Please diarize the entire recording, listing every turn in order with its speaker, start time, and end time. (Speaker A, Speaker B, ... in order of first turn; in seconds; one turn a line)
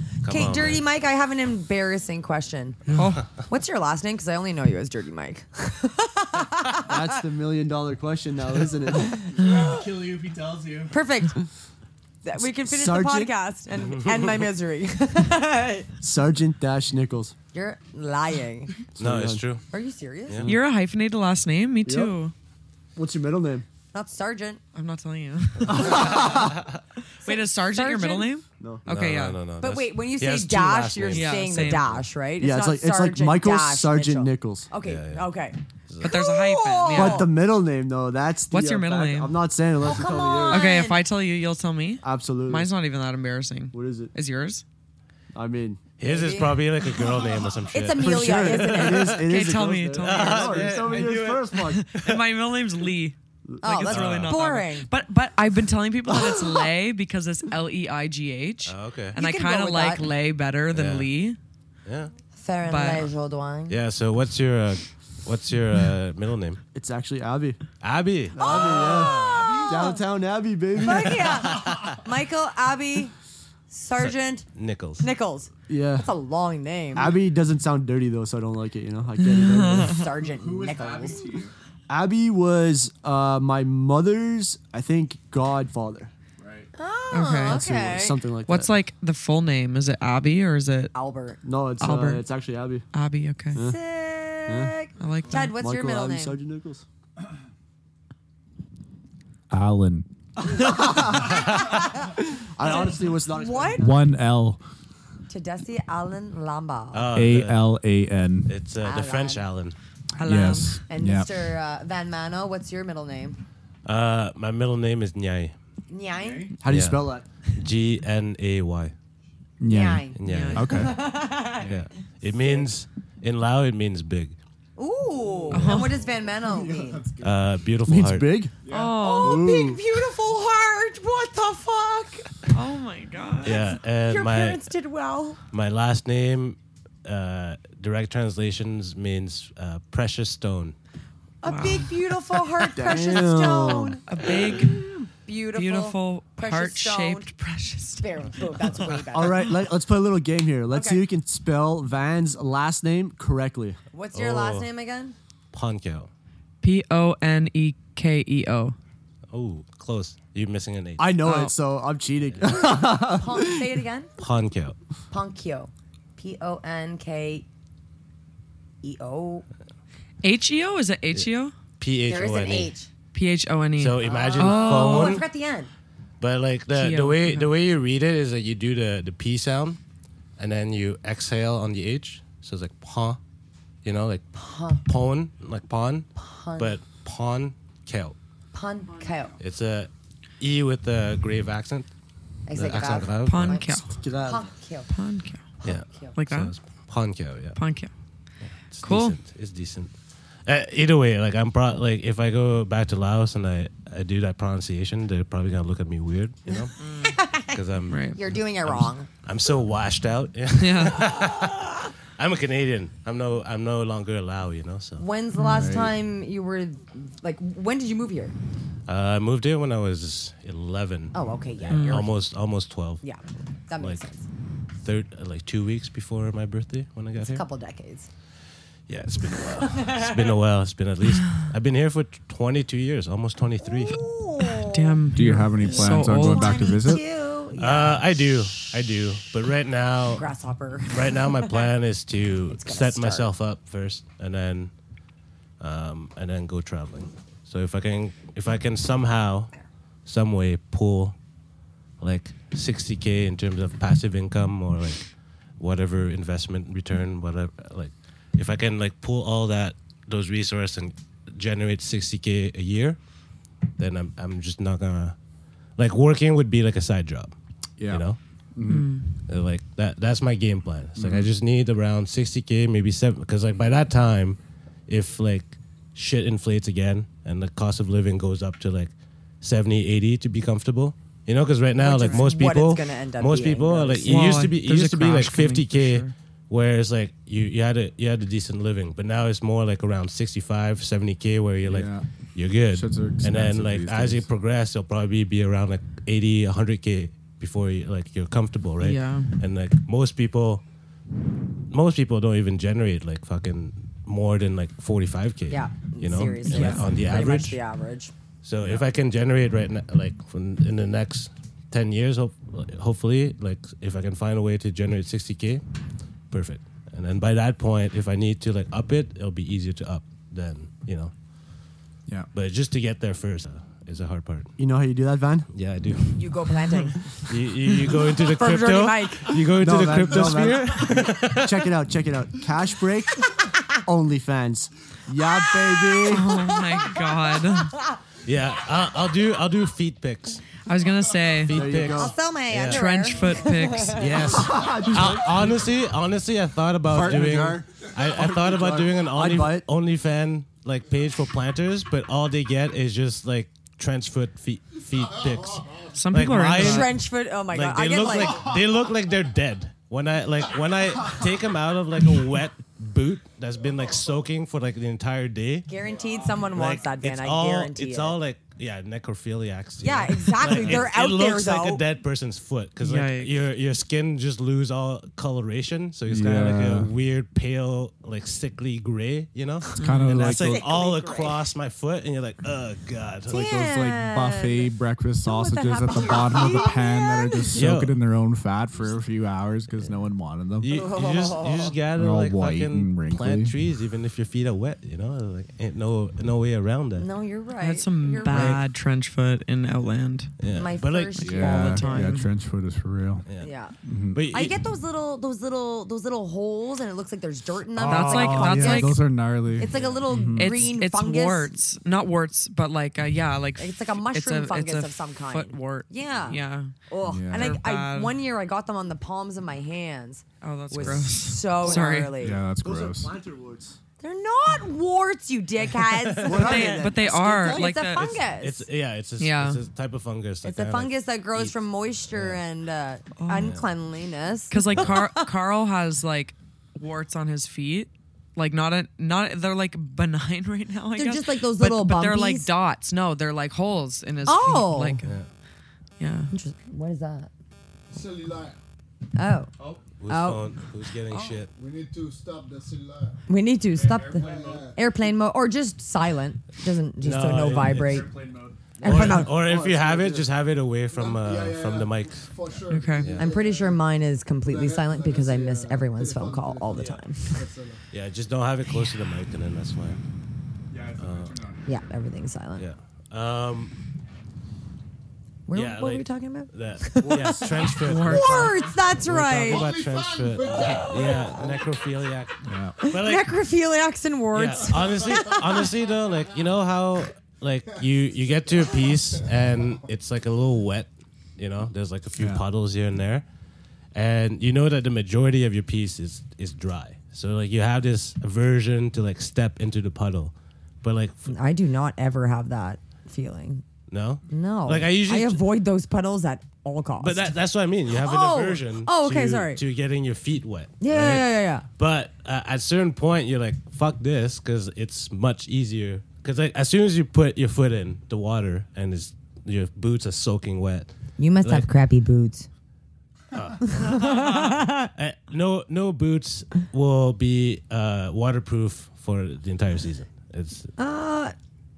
Speaker A: 0.2-0.8
Speaker B: 0.2-2.9
Speaker C: 2.9-3.2
Speaker A: 3.0-3.3
Speaker B: 3.5-7.2
Speaker D: 6.8-9.2
Speaker B: 8.9-9.8
Speaker E: 9.3-11.0
Speaker B: 10.9-11.4
Speaker B: 12.2-15.9
Speaker D: 12.4-13.3
Speaker A: 13.7-14.4
Speaker D: 16.0-17.4
Speaker B: 17.5-18.8
Speaker A: 19.0-19.6
Speaker D: 19.0-19.5
Speaker B: 19.7-20.5
Speaker D: 20.4-20.6
Speaker C: 20.4-22.3
Speaker D: 21.9-22.2
Speaker D: 23.0-23.7
Speaker B: 23.9-24.6
Speaker C: 24.7-26.5
Speaker D: 25.7-26.6
Speaker A: 25.7-26.8
Speaker C: 27.1-29.4
Speaker B: 27.2-28.3
Speaker D: 28.6-28.9
Speaker A: 28.9-32.0
Speaker B: 29.6-37.4
Speaker C: 31.1-31.9
Speaker D: 32.4-34.7
Speaker A: 34.8-35.3
Speaker A: 35.9-36.3
Speaker C: 36.0-37.3
Speaker D: 36.9-40.8
Speaker C: 38.5-39.3
Speaker B: 39.8-41.0
Speaker C: 40.5-44.6
Speaker D: 42.0-42.7
Speaker D: 43.7-44.1
Speaker D: 45.3-45.8
Speaker A: 46.0-48.8
Speaker B: 46.0-49.3
Speaker D: 48.0-51.9
Speaker C: 49.0-61.4
Speaker A: 50.0-52.2
Speaker D: 53.5-53.8
Speaker B: 53.6-54.9
Speaker A: 53.9-54.4
Speaker A: 58.6-59.2
Speaker B: 59.2-60.1
Speaker A: 60.7-61.1
Speaker A: 61.9-62.1
Speaker B: 62.4-63.8
Speaker C: 62.6-63.1
Speaker A: 63.7-66.6
Speaker D: 66.7-67.6
Speaker A: 67.8-69.7
Speaker D: 68.3-71.5
Speaker B: 68.4-70.0
Speaker F: 68.5-69.9
Speaker B: 70.8-73.1
Speaker A: 71.5-72.0
Speaker B: 73.7-74.5
Speaker A: 74.0-75.1
Speaker B: 75.0-77.2
Speaker D: 75.7-76.1
Speaker D: 77.0-80.1
Speaker C: 79.2-80.0
Speaker B: 79.8-81.3
Speaker E: 80.2-81.5
Speaker D: 81.9-86.1
Speaker E: 86.4-86.7
Speaker B: 86.8-88.2
Speaker C: 87.1-87.6
Speaker D: 87.5-88.7
Speaker C: 88.5-90.9
Speaker B: 90.9-91.4
Speaker D: 91.4-92.8
Speaker C: 91.8-92.2
Speaker C: 92.9-93.6
Speaker B: 93.6-96.4
Speaker D: 94.5-94.8
Speaker C: 95.0-95.6
Speaker D: 95.4-96.8
Speaker E: 99.5-100.1
Speaker D: 100.6-101.4
Speaker A: 101.1-101.9
Speaker B: 101.5-102.1
Speaker D: 102.4-103.9
Speaker B: 102.6-104.0
Speaker E: 103.8-104.6
Speaker B: 105.3-107.1
Speaker A: 106.9-107.6
Speaker E: 107.1-108.5
Speaker A: 108.5-109.8
Speaker B: 108.8-109.5
Speaker E: 110.2-111.3
Speaker B: 110.2-113.4
Speaker A: 113.8-115.5
Speaker B: 115.9-116.5
Speaker E: 116.1-116.5
Speaker D: 116.6-117.3
Speaker A: 116.7-118.9
Speaker E: 119.6-121.9
Speaker B: 119.7-121.7
Speaker A: 120.2-120.9
Speaker C: 120.2-120.7
Speaker A: 121.6-124.4
Speaker B: 122.3-122.7
Speaker B: 124.8-127.1
Speaker C: 125.5-125.9
Speaker F: 126.5-127.2
Speaker A: 127.2-128.3
Speaker D: 127.8-128.6
Speaker E: 128.7-128.9
Speaker C: 128.7-129.4
Speaker B: 129.0-132.4
Speaker D: 129.2-129.8
Speaker C: 132.5-133.7
Speaker A: 133.4-134.7
Speaker B: 133.4-135.4
Speaker A: 135.5-140.8
Speaker B: 141.4-147.3
Speaker C: 141.4-141.9
Speaker D: 142.7-144.0
Speaker C: 144.0-144.9
Speaker C: 145.5-148.1
Speaker B: 148.0-149.5
Speaker C: 148.6-148.9
Speaker D: 149.1-153.8
Speaker B: 150.7-151.0
Speaker B: 153.9-155.2
Speaker A: 154.1-154.7
Speaker A: 155.5-156.1
Speaker C: 156.6-158.8
Speaker A: 159.3-161.2
Speaker D: 161.0-163.7
Speaker C: 161.2-161.5
Speaker A: 162.3-162.8
Speaker B: 163.1-164.1
Speaker A: 164.2-164.8
Speaker B: 165.1-167.5
Speaker B: 168.8-169.4
Speaker C: 170.2-171.5
Speaker A: 171.8-172.7
Speaker B: 172.1-172.9
Speaker C: 173.1-175.2
Speaker A: 173.8-175.3
Speaker B: 174.0-175.7
Speaker A: 176.2-179.8
Speaker C: 176.7-177.5
Speaker A: 180.4-183.2
Speaker A: 183.8-184.3
Speaker B: 184.3-184.8
Speaker A: 184.8-188.2
Speaker B: 186.2-186.8
Speaker B: 188.5-189.3
Speaker A: 189.4-191.9
Speaker B: 192.5-194.9
Speaker A: 192.5-193.6
Speaker C: 193.2-193.9
Speaker D: 193.9-194.5
Speaker C: 194.9-195.4
Speaker B: 195.6-196.2
Speaker A: 195.6-197.6
Speaker C: 196.2-196.5
Speaker C: 197.6-197.9
Speaker A: 198.7-199.9
Speaker C: 198.8-199.2
Speaker A: 200.5-206.8
Speaker B: 206.5-207.6
Speaker C: 206.8-207.2
Speaker A: 207.5-215.1
Speaker C: 207.9-208.2
Speaker B: 208.1-209.1
Speaker C: 210.6-211.1
Speaker B: 211.3-211.8
Speaker B: 215.0-218.3
Speaker C: 215.4-215.7
Speaker E: 215.4-216.0
Speaker A: 218.9-223.0
Speaker B: 221.1-222.1
Speaker C: 221.7-222.1
Speaker B: 223.0-224.3
Speaker A: 224.8-227.4
Speaker B: 227.2-228.1
Speaker A: 228.9-234.0
Speaker B: 229.3-230.3
Speaker B: 233.6-235.0
Speaker C: 234.5-236.7
Speaker E: 235.1-237.0
Speaker B: 235.6-238.6
Speaker A: 237.6-240.2
Speaker B: 240.1-241.6
Speaker A: 240.9-244.7
Speaker B: 242.5-243.3
Speaker A: 245.6-249.5
Speaker A: 250.1-251.2
Speaker A: 252.0-255.1
Speaker A: 255.6-263.0
Speaker A: 263.8-265.1
Speaker A: 265.8-267.3
Speaker A: 267.9-268.2
Speaker E: 268.6-268.9
Speaker C: 268.7-269.1
Speaker A: 269.3-300.6
Speaker E: 271.0-271.3
Speaker B: 281.8-284.4
Speaker C: 284.0-286.1
Speaker E: 291.7-292.1
Speaker E: 292.7-294.3
Speaker C: 298.8-299.4
Speaker A: 301.7-307.6
Speaker B: 305.5-308.1
Speaker E: 306.5-306.8
Speaker A: 308.4-315.6
Speaker A: 316.3-321.1
Speaker A: 322.3-324.5
Speaker D: 324.6-325.5
Speaker A: 325.5-331.7
Speaker B: 326.1-327.3
Speaker B: 327.8-329.5
Speaker D: 329.6-333.3
Speaker D: 333.9-336.3
Speaker B: 335.4-338.0
Speaker C: 336.1-337.7
Speaker A: 338.2-340.5
Speaker C: 340.7-341.6
Speaker A: 341.5-342.9
Speaker D: 341.5-342.2
Speaker B: 341.9-344.5
Speaker C: 342.7-344.1
Speaker A: 344.0-365.7
Speaker D: 344.3-345.7
Speaker D: 346.9-349.7
Speaker F: 355.5-356.0
Speaker C: 355.9-356.9
Speaker B: 356.6-358.5
Speaker B: 365.7-368.2
Speaker F: 365.8-366.4
Speaker A: 366.4-383.6
Speaker B: 369.8-371.8
Speaker E: 370.5-370.8
Speaker C: 372.8-373.5
Speaker E: 376.1-376.9
Speaker C: 379.8-380.1
Speaker E: 379.8-380.6
Speaker B: 380.2-381.4
Speaker B: 383.3-384.7
Speaker E: 383.3-390.7
Speaker B: 385.2-387.6
Speaker A: 387.5-388.0
Speaker A: 390.6-397.1
Speaker B: 390.7-391.8
Speaker E: 391.9-393.6
Speaker B: 397.0-398.6
Speaker C: 397.6-400.3
Speaker A: 398.3-398.6
Speaker A: 400.4-401.8
Speaker B: 400.5-402.2
Speaker E: 401.2-403.2
Speaker C: 401.3-402.3
Speaker A: 403.3-403.5
Speaker B: 403.4-403.7
Speaker E: 403.8-404.2
Speaker A: 404.1-404.6
Speaker B: 404.3-411.5
Speaker A: 407.8-408.7
Speaker C: 407.9-409.0
Speaker E: 408.0-410.6
Speaker A: 409.7-410.1
Speaker C: 410.3-416.7
Speaker B: 413.6-422.5
Speaker E: 417.0-417.6
Speaker C: 417.3-418.1
Speaker C: 420.4-422.1
Speaker E: 420.8-421.1
Speaker E: 422.2-423.1
Speaker D: 422.5-423.8
Speaker B: 424.0-426.8
Speaker A: 425.8-426.8
Speaker D: 426.2-427.9
Speaker C: 426.3-428.1
Speaker B: 427.4-428.7
Speaker A: 427.9-431.6
Speaker C: 429.2-429.6
Speaker B: 430.4-435.3
Speaker A: 432.1-432.4
Speaker C: 433.2-433.5
Speaker A: 433.4-433.7
Speaker C: 434.5-445.1
Speaker B: 440.9-442.5
Speaker B: 444.2-445.0
Speaker C: 446.0-446.3
Speaker B: 446.3-447.3
Speaker F: 447.9-448.6
Speaker B: 449.1-449.5
Speaker A: 450.0-451.5
Speaker B: 450.1-450.4
Speaker C: 451.1-451.4
Speaker F: 451.6-453.2
Speaker B: 453.3-458.1
Speaker E: 453.7-454.8
Speaker F: 454.1-454.8
Speaker A: 457.0-458.1
Speaker E: 457.4-458.6
Speaker B: 458.8-459.4
Speaker A: 458.8-462.3
Speaker D: 459.3-460.3
Speaker F: 460.9-463.8
Speaker C: 462.7-463.1
Speaker A: 463.0-463.3
Speaker B: 463.2-467.4
Speaker F: 464.4-467.8
Speaker A: 467.9-470.0
Speaker E: 470.7-471.8
Speaker A: 471.0-471.4
Speaker B: 471.7-472.6
Speaker A: 472.6-473.8
Speaker B: 475.5-479.7
Speaker A: 475.5-483.3
Speaker D: 477.0-477.6
Speaker C: 477.8-478.6
Speaker F: 479.4-481.7
Speaker B: 480.6-481.4
Speaker E: 482.5-482.8
Speaker B: 482.8-485.7
Speaker A: 484.3-493.2
Speaker F: 484.7-485.3
Speaker E: 492.2-492.4
Speaker A: 493.9-501.3
Speaker B: 501.3-503.6
Speaker A: 503.9-505.4
Speaker B: 504.3-507.3
Speaker A: 507.0-521.7
Speaker B: 507.9-509.6
Speaker B: 510.8-511.7
Speaker B: 521.2-522.5
Speaker A: 523.3-530.7
Speaker B: 523.7-524.9
Speaker B: 530.8-531.3